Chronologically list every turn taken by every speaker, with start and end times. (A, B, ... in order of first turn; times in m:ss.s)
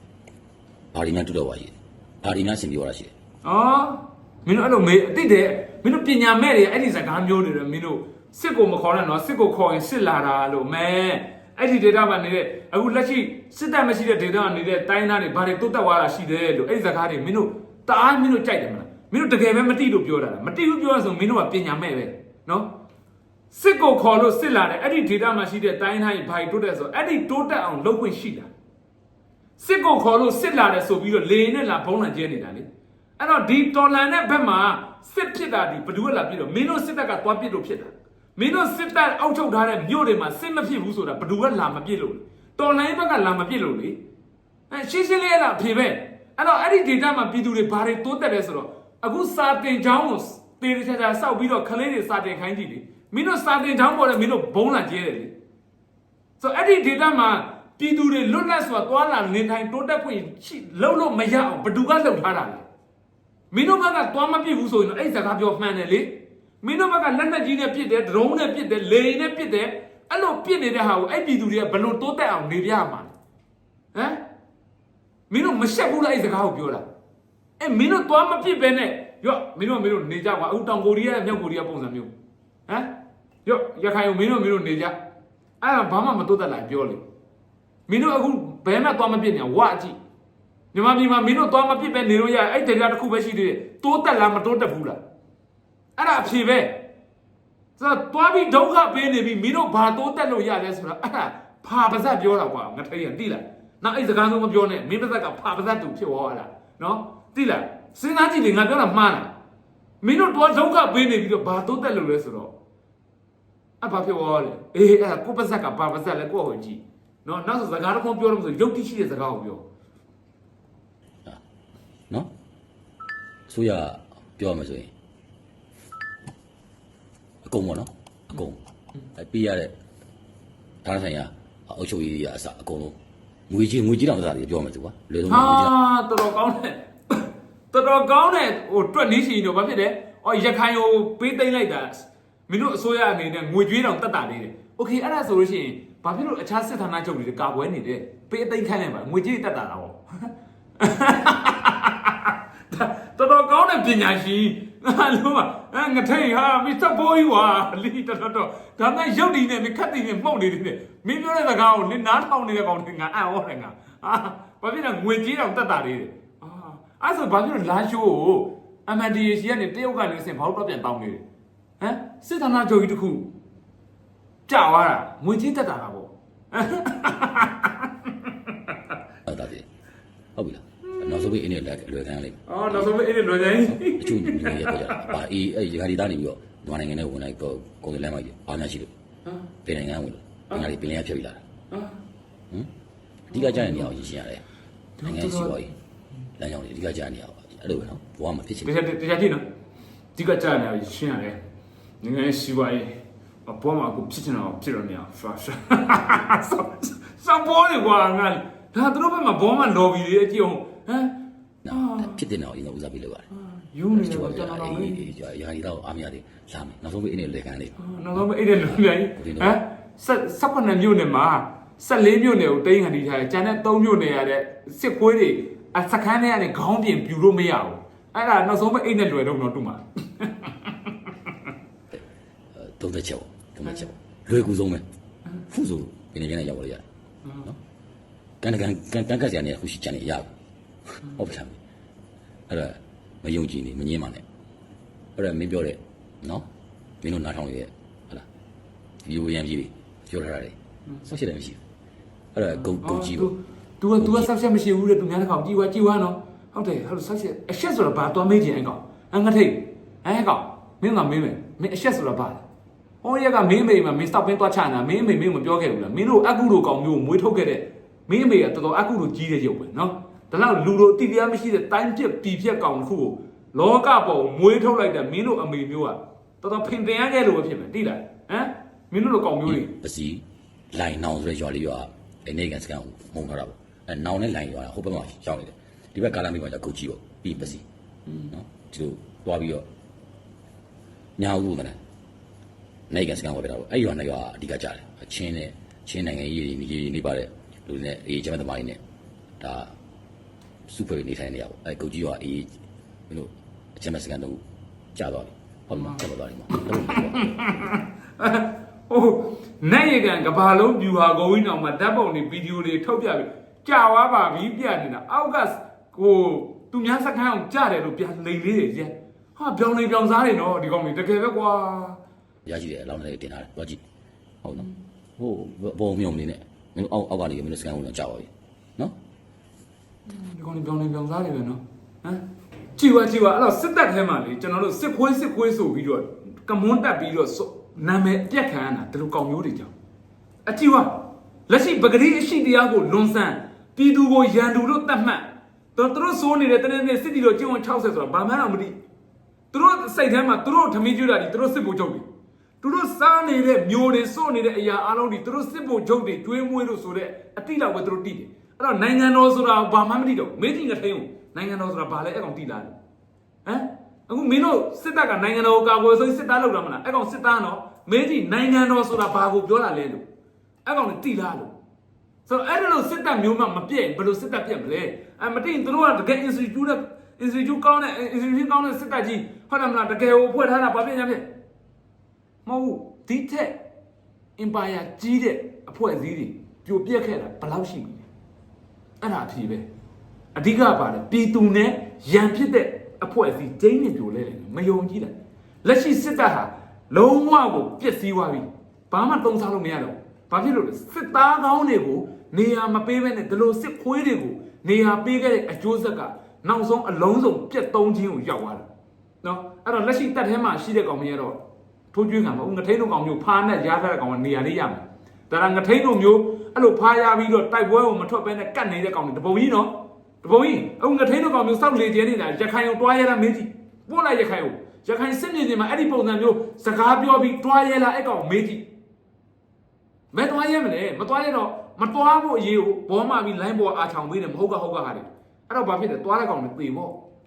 0:00.9-0:03.1 A
0:03.4-0:22.7 B
0:23.5-0:28.5 B
0:29.6-0:32.7 B
0:33.2-0:44.0 B
0:44.7-0:55.3 B
0:56.4-1:02.7 B
1:03.5-1:13.1 B
1:13.9-1:14.2 B
1:15.3-1:16.8 B
1:17.6-1:22.1 B
1:23.4-1:25.0 B
1:25.6-1:27.0 B
1:27.9-1:30.0 B
1:30.7-1:35.0 B
1:36.0-1:36.8 B
1:37.8-1:49.3 B
1:50.0-1:52.5 B
1:53.8-1:59.6 B
2:03.5-2:04.9 A
2:07.4-2:08.6 A
2:09.2-2:09.7 A
2:10.8-2:13.0 A
2:13.5-2:15.7 A
2:15.3-2:30.3 B
2:30.8-2:51.2 B
2:51.8-2:53.3 B
2:54.5-2:58.8 B
2:59.3-2:59.7 A
3:00.4-3:02.9 A
3:00.9-3:01.3 B
3:02.5-3:05.1 B
3:03.7-3:08.9 A
3:09.6-3:11.4 A
3:11.7-3:12.0 B
3:13.3-3:14.4 A
3:13.3-3:13.9 B
3:15.0-3:15.6 B
3:15.0-3:15.7 A
3:16.4-3:18.7 A
3:18.6-3:19.4 B
3:20.2-3:21.4 B
3:22.0-3:31.2 B
3:31.6-3:33.3 A
3:31.7-3:32.2 B
3:33.3-3:35.1 B
3:33.9-3:39.6 A
3:37.8-3:51.1 B
3:52.5-3:54.8 A
3:55.4-3:56.8 A
3:58.4-4:00.3 A
4:00.9-4:01.6 A
4:02.5-4:04.2 A
4:05.2-4:06.5 A
4:07.0-4:08.3 A
4:09.0-4:11.6 A
4:12.3-4:13.3 A
4:12.8-4:22.4 B
4:14.0-4:14.3 A
4:23.0-4:39.7 B
4:39.5-4:47.6 A
4:48.3-4:49.7 A
4:51.2-4:51.8 A
4:52.9-4:58.8 A
4:59.4-4:59.7 A
5:00.7-5:02.5 A
5:03.1-5:04.4 A
5:04.9-5:07.7 A
5:06.9-5:22.0 B
5:22.5-5:23.8 A
5:24.4-5:29.0 A
5:30.1-5:32.2 B
5:32.8-5:39.7 B
5:40.5-5:48.8 B
5:49.5-5:52.1 B
5:52.6-6:02.7 B
6:03.4-6:10.0 B
6:10.6-6:11.5 B
6:12.3-6:21.3 B
6:22.4-6:23.6 B
6:24.4-6:28.0 B
6:29.0-6:29.7 B
6:30.4-6:48.7 B
6:49.2-6:51.4 B
6:51.9-7:08.6 B
7:10.1-7:17.0 B